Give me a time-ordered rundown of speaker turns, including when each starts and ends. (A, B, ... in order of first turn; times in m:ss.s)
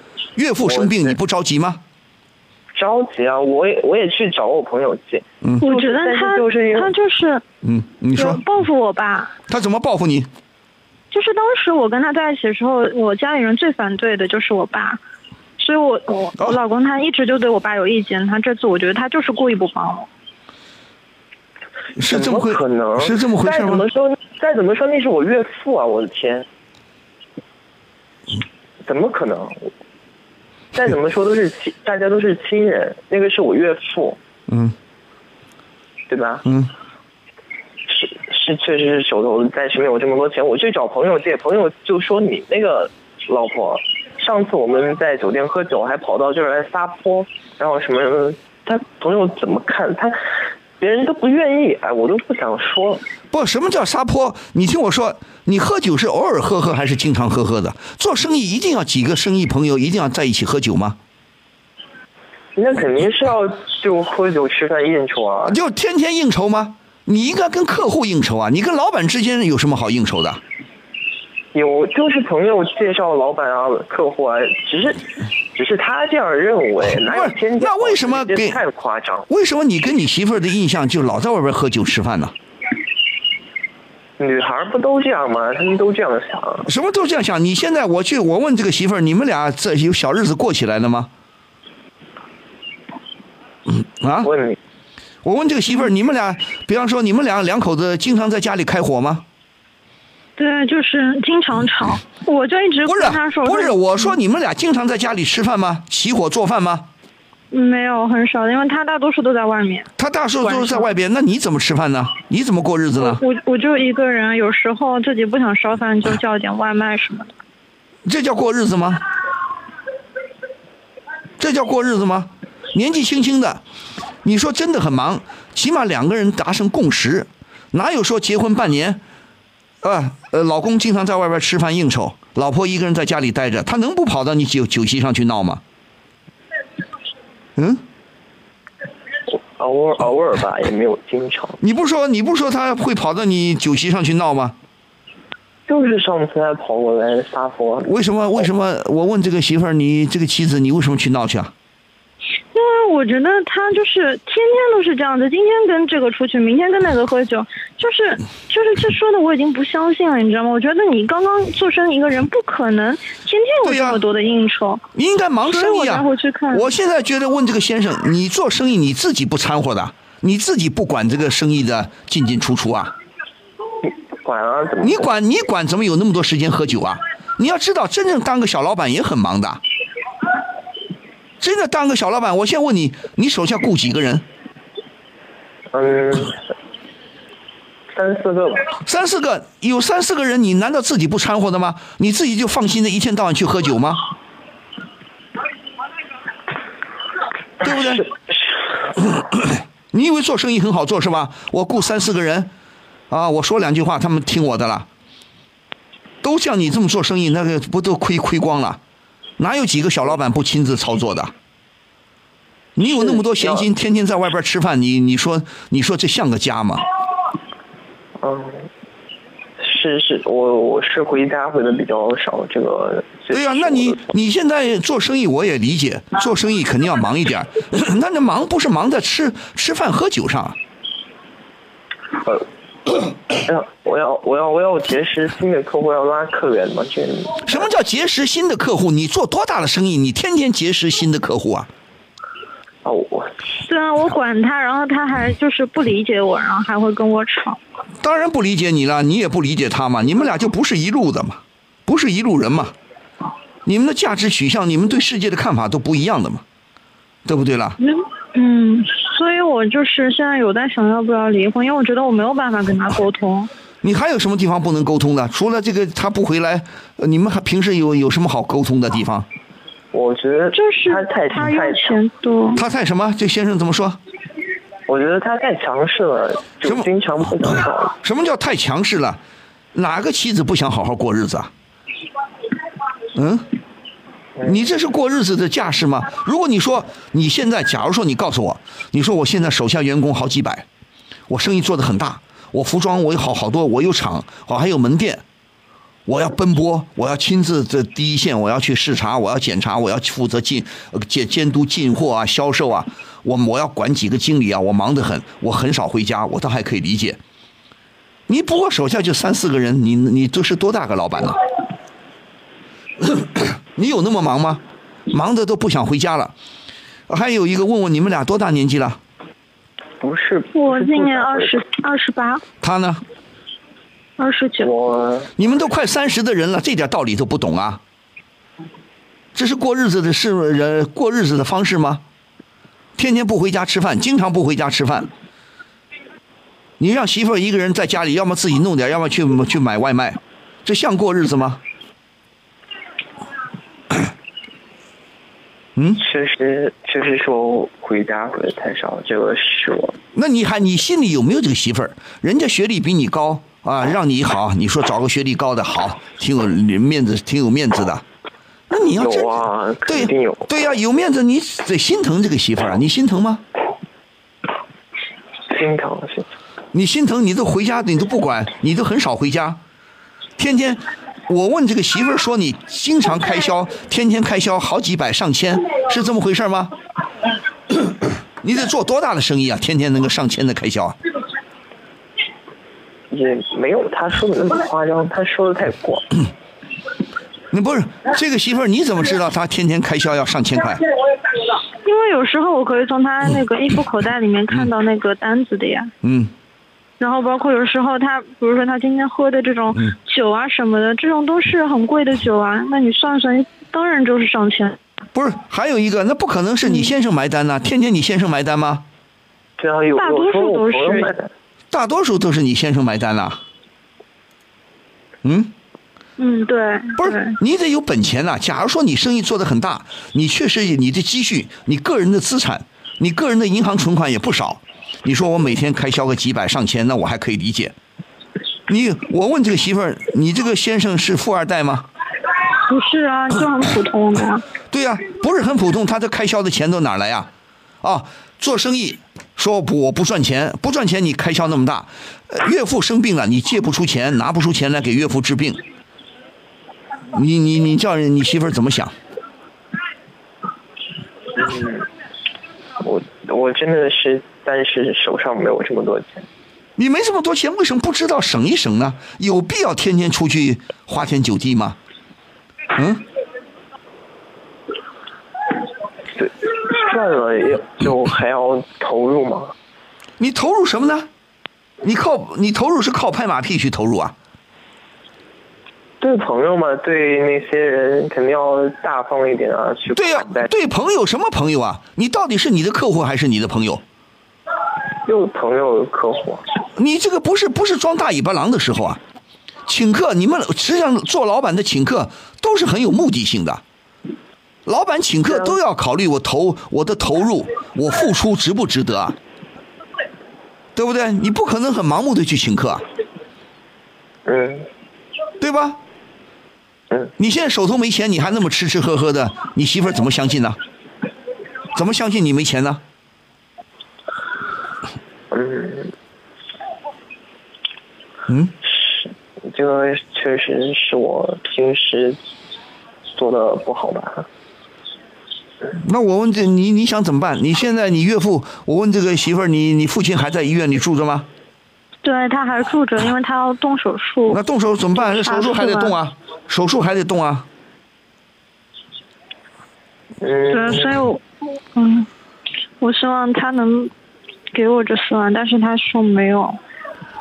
0:00.4-0:01.8 A
0:00.6-0:01.2 B
0:02.8-0:06.9 B
0:05.6-0:07.4 C
0:07.6-0:08.4 A
0:08.1-0:09.3 C
0:09.5-0:10.3 A
0:11.1-0:15.0 C
0:15.6-0:20.1 C
0:22.0-0:23.9 A
0:22.1-0:26.5 B
0:28.8-0:29.7 B
0:30.7-0:34.2 B
0:34.5-0:34.8 A
0:36.1-0:36.5 B
0:36.4-0:36.7 A
0:37.9-0:50.2 B
0:50.8-0:53.0 B
0:53.3-1:01.0 A
1:02.6-1:05.6 B
1:05.4-1:10.4 A
1:11.5-1:19.3 B
1:17.0-1:18.6 A
1:19.3-1:22.3 A
1:24.2-1:26.7 B
1:26.7-1:31.1 A
1:33.7-1:34.3 A
1:34.2-1:34.6 B
1:35.2-1:39.2 A
1:40.4-1:44.2 C
1:42.8-1:46.9 A
1:47.5-1:49.9 C
1:50.0-1:53.2 A
1:50.4-1:50.9 C
1:53.0-1:57.3 C
1:58.1-1:59.0 A
2:01.4-2:03.6 A
2:04.2-2:09.0 A
2:09.8-2:15.6 A
2:17.6-2:17.8 A
2:19.3-2:21.6 B
2:21.6-2:24.6 A
2:25.7-2:27.9 B
2:27.8-2:31.5 A
2:32.5-2:44.8 C
2:43.6-2:44.0 A
2:44.9-2:53.0 A
2:45.4-2:46.7 C
2:53.8-2:55.1 B
2:54.8-2:59.6 A
3:01.4-3:04.2 A
3:05.7-3:06.4 B
3:07.9-3:08.8 B
3:08.8-3:14.0 A
3:17.6-3:18.0 A
3:17.6-3:18.1 B
3:19.0-3:22.5 A
3:23.1-3:24.9 A
3:26.2-3:28.8 A
3:29.4-3:31.3 A
3:32.8-3:36.9 A
3:33.0-3:33.7 B
3:38.2-3:38.7 B
3:39.6-3:44.1 B
3:43.3-3:50.6 A
3:53.3-3:57.7 B
3:57.4-4:01.7 A
4:02.8-4:03.4 B
4:03.7-4:07.6 C
4:08.0-4:12.8 A
4:13.6-4:16.4 A
4:17.3-4:17.8 A
4:17.8-4:23.5 C
4:23.8-4:29.3 A
4:29.9-4:32.0 B
4:30.5-4:32.6 C
4:32.6-4:34.0 A
4:34.9-4:38.0 B
4:38.0-4:39.2 A
4:39.7-4:41.5 A
4:43.1-4:43.5 A
4:44.4-4:50.7 A
4:51.3-4:55.2 A
4:56.1-5:07.2 A
5:08.3-5:11.4 A
5:13.0-5:16.4 A
5:17.1-5:19.0 A
5:20.0-5:21.6 B
5:20.5-5:22.4 C
5:22.6-5:23.0 A
5:24.2-5:24.7 C
5:24.6-5:25.3 B
5:25.4-5:27.8 A
5:29.4-5:32.0 A
5:33.0-5:35.1 A
5:36.8-5:41.6 A
5:45.8-5:46.0 A
5:46.0-5:50.0 B
5:50.1-5:58.0 A
5:58.7-6:03.4 A
5:59.0-6:00.6 B
6:05.5-6:06.3 B
6:06.7-6:09.6 A
6:10.4-6:16.8 A
6:17.8-6:21.0 A
6:23.1-6:26.2 B
6:27.5-6:30.8 A
6:31.8-6:35.9 C
6:36.0-6:36.3 A
6:37.0-6:44.8 C
6:45.1-6:48.8 A
6:49.6-6:51.3 B
6:50.0-6:51.1 C
6:51.7-6:53.4 A
6:55.2-6:55.5 A
6:56.2-6:57.4 C
6:57.0-7:07.8 A
7:08.7-7:11.9 A
7:12.7-7:14.4 C
7:14.7-7:25.6 A
7:27.1-7:29.0 A
7:31.3-7:31.9 B
7:32.8-7:36.3 B
7:36.8-7:41.8 A
7:42.8-7:43.0 A
7:46.2-7:49.5 B
7:50.2-7:51.1 A
7:51.8-7:54.2 A
7:56.0-8:00.5 B
7:59.9-8:03.8 A
8:05.0-8:06.4 B
8:06.8-8:09.0 A
8:09.7-8:13.6 A
8:14.7-8:19.2 A
8:15.3-8:15.6 B
8:20.8-8:22.8 A
8:24.3-8:24.7 B
8:25.4-8:25.8 A
8:27.2-8:30.6 A
8:31.7-8:32.8 A
8:35.3-8:35.9 B
8:38.3-8:38.5 A
8:38.6-8:42.2 B
8:43.2-8:44.3 B
8:45.7-8:51.3 A
8:52.0-8:54.4 C
8:54.3-8:57.5 A
8:55.0-8:56.0 C
9:00.2-9:00.9 B
9:00.5-9:01.2 C
9:01.8-9:02.1 C
9:02.8-9:03.9 C
9:04.5-9:06.6 C